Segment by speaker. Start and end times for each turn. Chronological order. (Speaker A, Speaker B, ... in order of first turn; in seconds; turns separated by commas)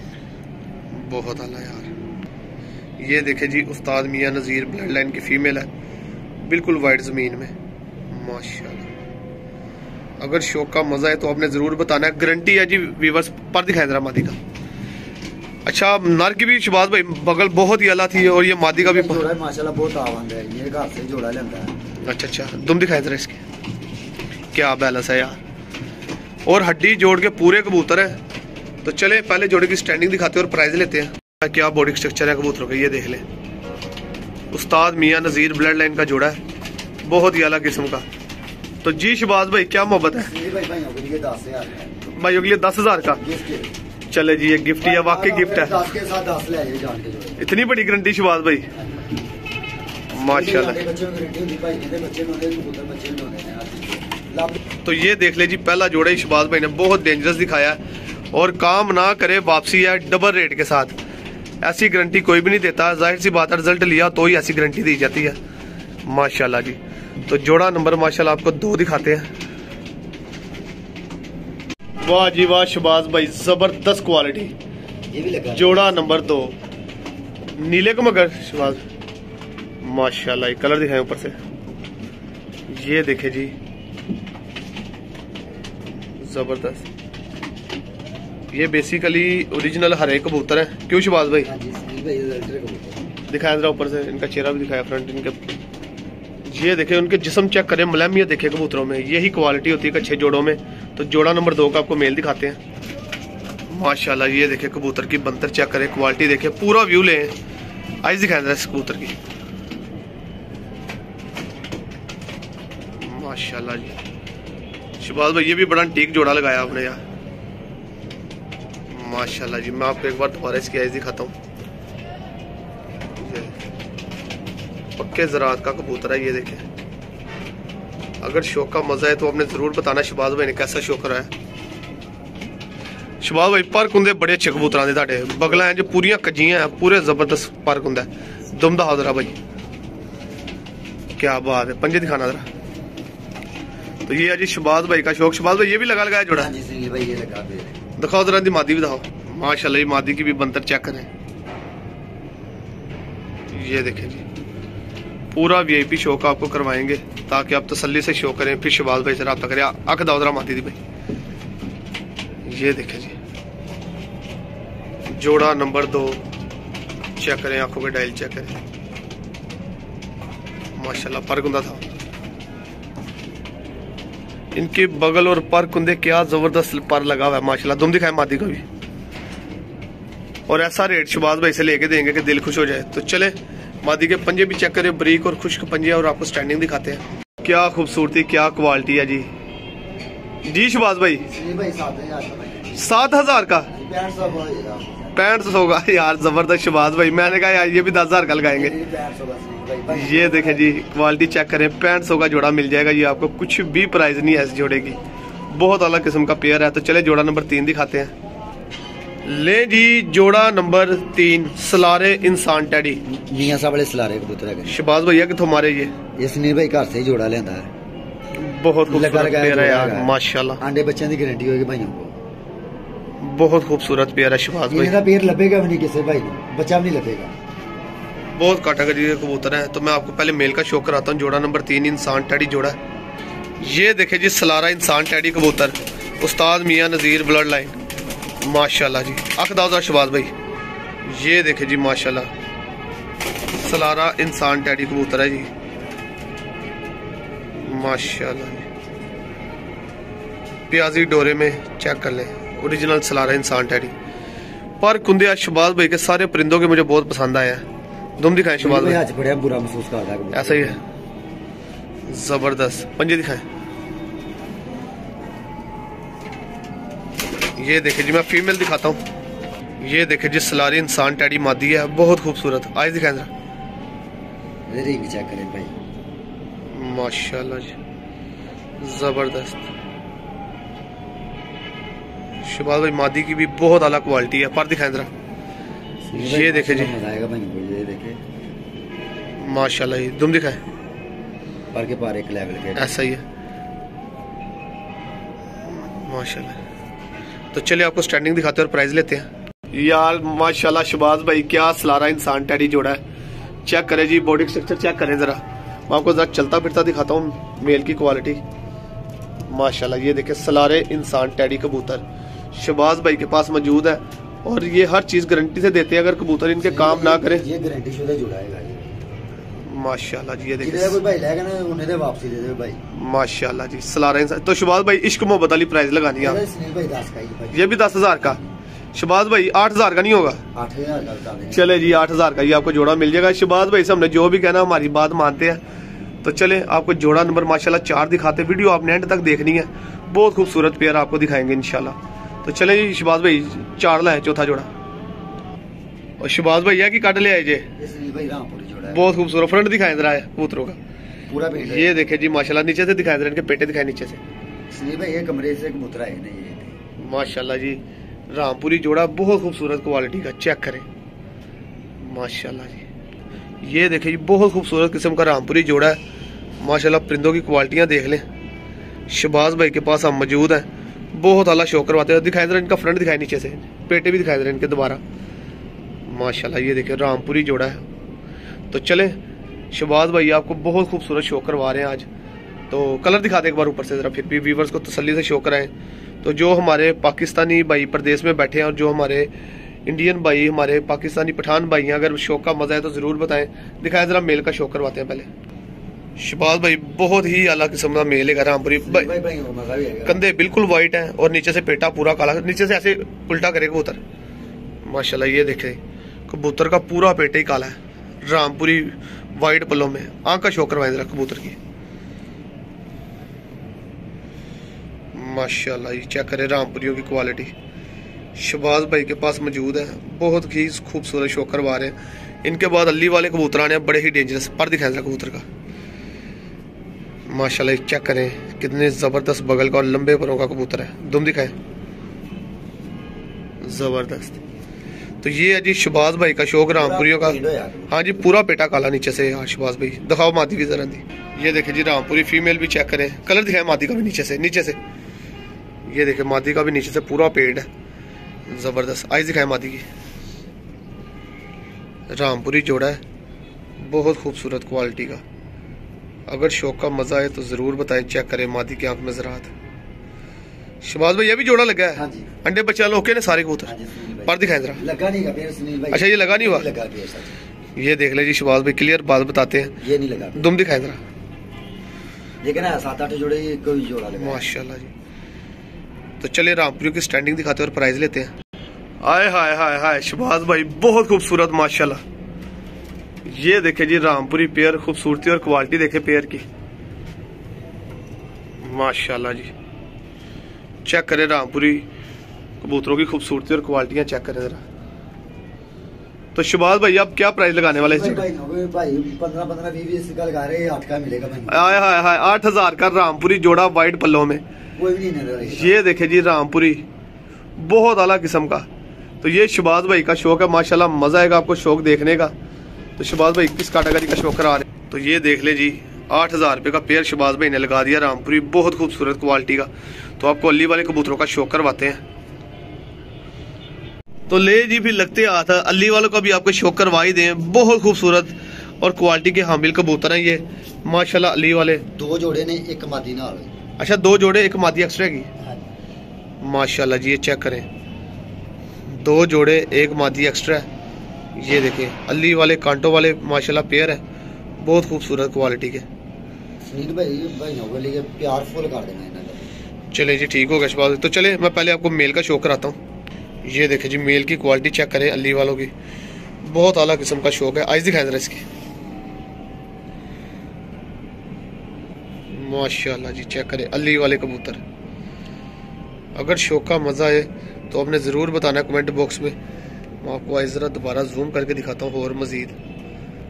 Speaker A: 0.9-1.9, Speaker A: 3.0-5.7, Speaker A: 6.4-7.5, Speaker A: 8.1-8.9, Speaker A: 10.2-14.4, Speaker A: 15.7-19.2, Speaker B: 18.2-21.8, Speaker A: 22.0-23.4, Speaker A: 24.5-25.4, Speaker A: 26.5-28.2, Speaker A: 28.8-33.2, Speaker A: 34.5-36.4, Speaker A: 37.0-38.0, Speaker A: 38.8-40.3, Speaker B: 40.2-42.0, Speaker A: 42.1-43.2, Speaker B: 43.1-43.7, Speaker A: 44.1-45.9, Speaker B: 44.8-47.4, Speaker A: 47.4-48.7, Speaker B: 48.8-49.2, Speaker A: 50.1-50.8, Speaker B: 50.1-54.6, Speaker A: 54.8-57.8, Speaker A: 58.3-60.9, Speaker A: 61.6-65.4, Speaker A: 66.0-69.3, Speaker A: 72.0-74.5, Speaker B: 75.1-76.3, Speaker A: 75.5-76.6, Speaker A: 77.6-78.8, Speaker A: 79.8-81.4, Speaker A: 82.7-83.5, Speaker A: 86.2-86.9, Speaker A: 88.5-91.5, Speaker B: 91.4-93.1, Speaker A: 93.3-95.4, Speaker A: 96.5-102.6, Speaker A: 103.7-107.3, Speaker A: 108.0-109.2, Speaker A: 113.0-114.0, Speaker A: 115.0-117.0, Speaker A: 118.9-121.3, Speaker A: 123.2-123.5, Speaker A: 125.0-126.7, Speaker A: 128.2-131.3, Speaker A: 133.2-139.4, Speaker A: 141.2-142.4, Speaker A: 144.1-146.5, Speaker B: 146.3-147.8, Speaker A: 148.0-151.1, Speaker A: 153.5-154.2, Speaker A: 155.3-160.8, Speaker A: 162.4-163.2, Speaker A: 165.1-166.2, Speaker A: 167.2-168.6, Speaker A: 170.8-171.8, Speaker A: 174.5-178.6, Speaker A: 180.5-189.3, Speaker A: 190.4-191.3, Speaker B: 191.3-192.9, Speaker A: 192.7-193.7, Speaker B: 193.7-195.2, Speaker A: 195.2-198.7, Speaker B: 198.5-200.7, Speaker A: 199.9-205.0, Speaker A: 205.5-208.1, Speaker A: 209.2-213.0, Speaker B: 213.1-214.8, Speaker A: 214.7-215.9, Speaker B: 216.2-217.7, Speaker A: 218.3-220.6, Speaker B: 218.9-222.2, Speaker A: 223.2-224.9, Speaker B: 224.7-227.3, Speaker A: 228.3-232.8, Speaker A: 233.6-237.8, Speaker A: 238.4-240.3, Speaker A: 241.0-242.3, Speaker A: 243.6-245.5, Speaker A: 247.6-248.7, Speaker A: 250.7-253.9, Speaker A: 254.8-257.6, Speaker A: 258.2-259.0, Speaker B: 258.6-260.8, Speaker A: 260.3-260.8, Speaker A: 262.1-263.4, Speaker A: 267.6-269.0, Speaker A: 269.8-273.3, Speaker B: 274.7-275.8, Speaker A: 276.7-277.8, Speaker A: 278.8-279.7, Speaker A: 282.4-285.1, Speaker B: 286.1-288.2, Speaker A: 286.1-286.9, Speaker A: 289.4-290.6, Speaker B: 291.7-293.1, Speaker A: 292.8-293.2, Speaker A: 295.6-296.6, Speaker A: 297.5-303.0, Speaker A: 303.6-308.4, Speaker A: 309.5-317.4, Speaker B: 316.6-319.0, Speaker A: 319.6-321.0, Speaker B: 320.6-322.8, Speaker A: 322.9-326.4, Speaker B: 326.2-328.5, Speaker A: 327.5-328.4, Speaker A: 328.9-330.4, Speaker B: 330.6-331.8, Speaker A: 331.5-335.6, Speaker A: 336.2-344.7, Speaker A: 346.2-347.7, Speaker B: 347.8-349.1, Speaker A: 348.9-350.8, Speaker B: 351.3-352.0, Speaker A: 351.6-354.2, Speaker B: 354.7-356.8, Speaker A: 357.0-360.9, Speaker A: 362.0-362.9, Speaker A: 363.6-366.0, Speaker A: 366.6-368.2, Speaker A: 369.1-375.0, Speaker A: 376.1-377.8, Speaker A: 378.7-379.2, Speaker A: 379.7-382.1, Speaker A: 382.7-389.3, Speaker A: 389.9-395.3, Speaker A: 396.2-399.1, Speaker B: 398.8-400.2, Speaker A: 400.1-404.0, Speaker A: 404.8-411.6, Speaker A: 415.1-417.5, Speaker A: 418.4-425.4, Speaker A: 427.3-431.6, Speaker A: 433.6-434.4, Speaker A: 435.2-437.4, Speaker B: 436.7-438.1, Speaker A: 437.9-444.8, Speaker A: 445.9-447.7, Speaker A: 448.5-449.9, Speaker A: 452.1-453.0, Speaker A: 453.8-455.2, Speaker A: 456.3-459.5, Speaker A: 460.8-463.7, Speaker B: 461.9-462.3, Speaker B: 463.6-467.4, Speaker A: 464.3-464.8, Speaker A: 465.9-466.7, Speaker A: 467.8-469.8, Speaker B: 469.8-470.5, Speaker A: 470.3-471.0, Speaker B: 472.4-474.5, Speaker A: 474.2-474.9, Speaker A: 476.2-478.3, Speaker A: 479.0-482.0, Speaker A: 483.2-486.4, Speaker A: 488.6-489.5, Speaker A: 490.9-491.9, Speaker A: 492.6-494.6, Speaker A: 496.4-498.3, Speaker B: 497.7-501.9, Speaker A: 501.5-504.4, Speaker B: 504.8-505.8, Speaker A: 505.4-506.9, Speaker A: 507.6-508.7, Speaker A: 509.2-512.3, Speaker A: 513.0-522.0, Speaker A: 524.3-531.8, Speaker B: 531.9-533.5, Speaker A: 533.8-535.3, Speaker A: 536.4-537.7, Speaker A: 538.9-540.7, Speaker A: 541.4-544.0, Speaker A: 544.6-545.9, Speaker B: 546.6-549.5, Speaker A: 549.9-552.8, Speaker A: 553.4-555.7, Speaker A: 556.4-558.4, Speaker A: 562.3-564.6, Speaker A: 566.1-569.4, Speaker A: 570.0-572.6